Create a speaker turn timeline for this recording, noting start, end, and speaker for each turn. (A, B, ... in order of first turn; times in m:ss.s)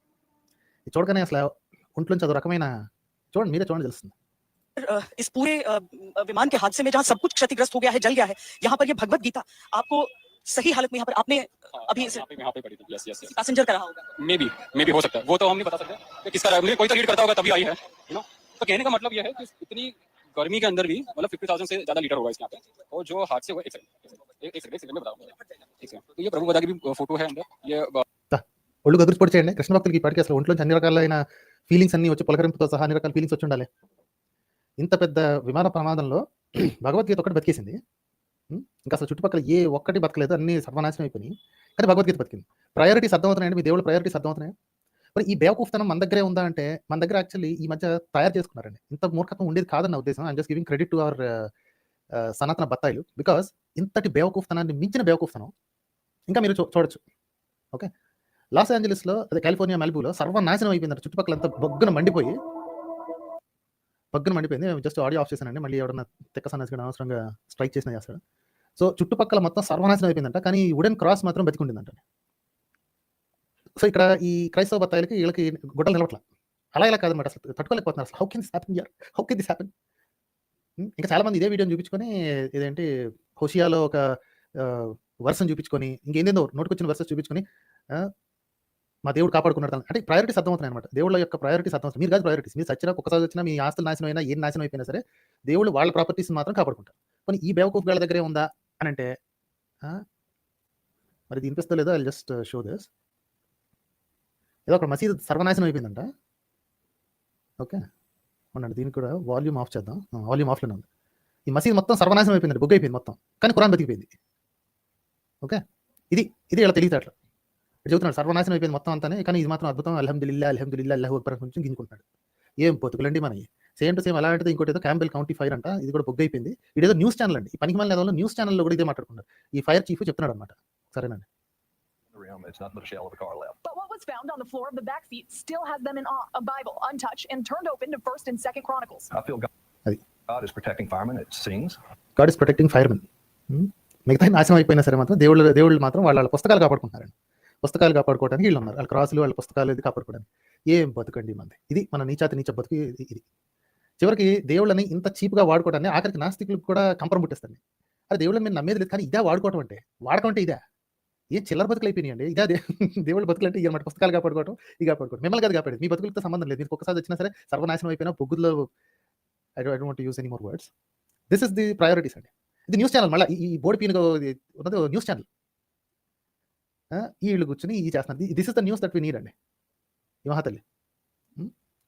0:00.9-0:02.7 A
0:03.3-0:04.1 A
0:04.8-0:12.2 B
0:11.8-0:13.3 C
0:13.3-0:14.0 B
0:14.2-0:28.0 C
0:28.3-0:33.7 A
0:34.8-0:37.8 A
0:38.5-0:44.5 A
0:45.2-0:51.5 A
0:52.2-0:55.5 A
0:56.3-0:57.0 A
0:58.6-1:02.4 A
1:04.1-1:08.2 A
1:08.8-1:12.0 A
1:13.8-1:16.2 A
1:16.8-1:19.7 A
1:20.8-1:28.1 A
1:29.0-1:39.1 A
1:41.3-1:42.9 A
1:44.7-1:46.1 A
1:48.5-1:50.8 A
1:51.5-1:54.1 A
1:56.1-1:57.1 A
1:57.9-2:02.0 A
2:02.6-2:11.2 A
2:12.1-2:13.6 D
2:13.6-2:19.1 E
2:19.1-2:19.5 D
2:20.3-2:21.8 D
2:22.2-2:27.1 A
2:27.6-2:33.2 A
2:34.0-2:37.6 A
2:38.1-2:40.6 A
2:41.3-2:48.7 A
2:49.6-2:50.7 A
2:51.3-2:55.2 A
2:56.9-2:59.3 A
3:00.2-3:00.6 A